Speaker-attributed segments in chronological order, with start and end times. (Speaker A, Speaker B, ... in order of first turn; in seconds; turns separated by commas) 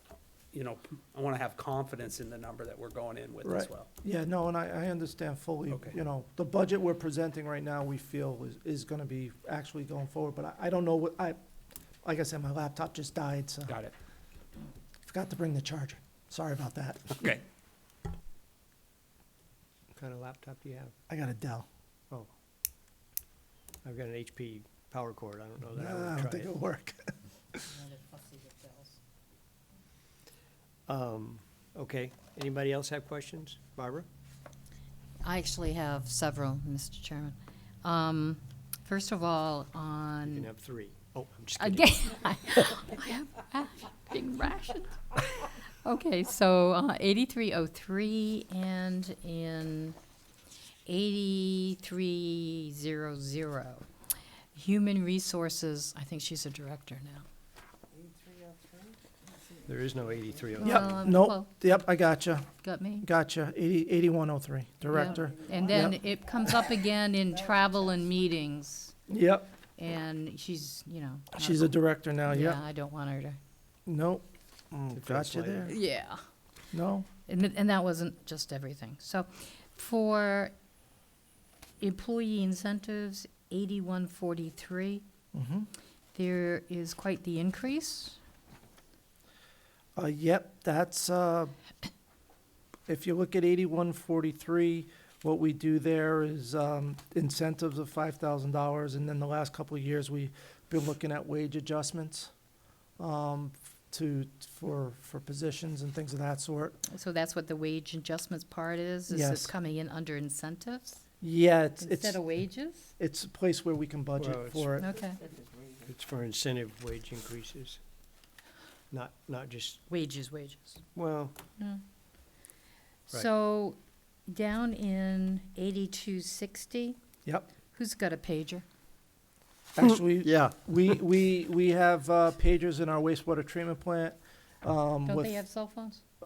Speaker A: 0.5-3.9, Speaker B: 3.4-11.4, Speaker A: 5.7-6.0, Speaker B: 12.0-13.8, Speaker A: 13.7-13.9, Speaker B: 15.1-17.3, Speaker C: 19.9-20.9, Speaker B: 21.1-21.6, Speaker C: 23.8-26.6, Speaker B: 25.7-27.6, Speaker D: 28.0-28.7, Speaker C: 30.9-34.1, Speaker D: 35.2-40.5, Speaker C: 40.2-42.4, Speaker D: 41.6-50.0, Speaker D: 50.9-53.9, Speaker D: 54.5-57.2, Speaker C: 59.6-61.0, Speaker D: 60.6-61.8, Speaker B: 60.6-66.0, Speaker D: 62.6-63.1, Speaker D: 64.9-68.9, Speaker B: 69.1-69.5, Speaker D: 69.8-73.4, Speaker B: 71.3-72.6, Speaker B: 73.9-75.7, Speaker C: 74.9-75.7, Speaker D: 75.7-76.2, Speaker B: 76.7-77.1, Speaker D: 77.3-80.5, Speaker D: 81.8-85.0, Speaker B: 85.3-85.7, Speaker D: 86.1-88.2, Speaker B: 90.0-91.5, Speaker B: 92.9-102.3, Speaker B: 103.0-106.8, Speaker D: 106.9-111.1, Speaker B: 109.1-109.5, Speaker B: 111.2-112.2, Speaker D: 111.8-112.9, Speaker B: 113.0-114.9, Speaker C: 114.2-114.8, Speaker D: 114.8-115.2, Speaker C: 115.8-117.8, Speaker C: 118.9-119.8, Speaker D: 119.9-120.8, Speaker C: 120.9-121.3, Speaker D: 121.6-121.8, Speaker D: 123.1-127.0, Speaker D: 127.7-128.6, Speaker B: 129.8-135.4, Speaker C: 129.8-130.8, Speaker D: 135.1-136.0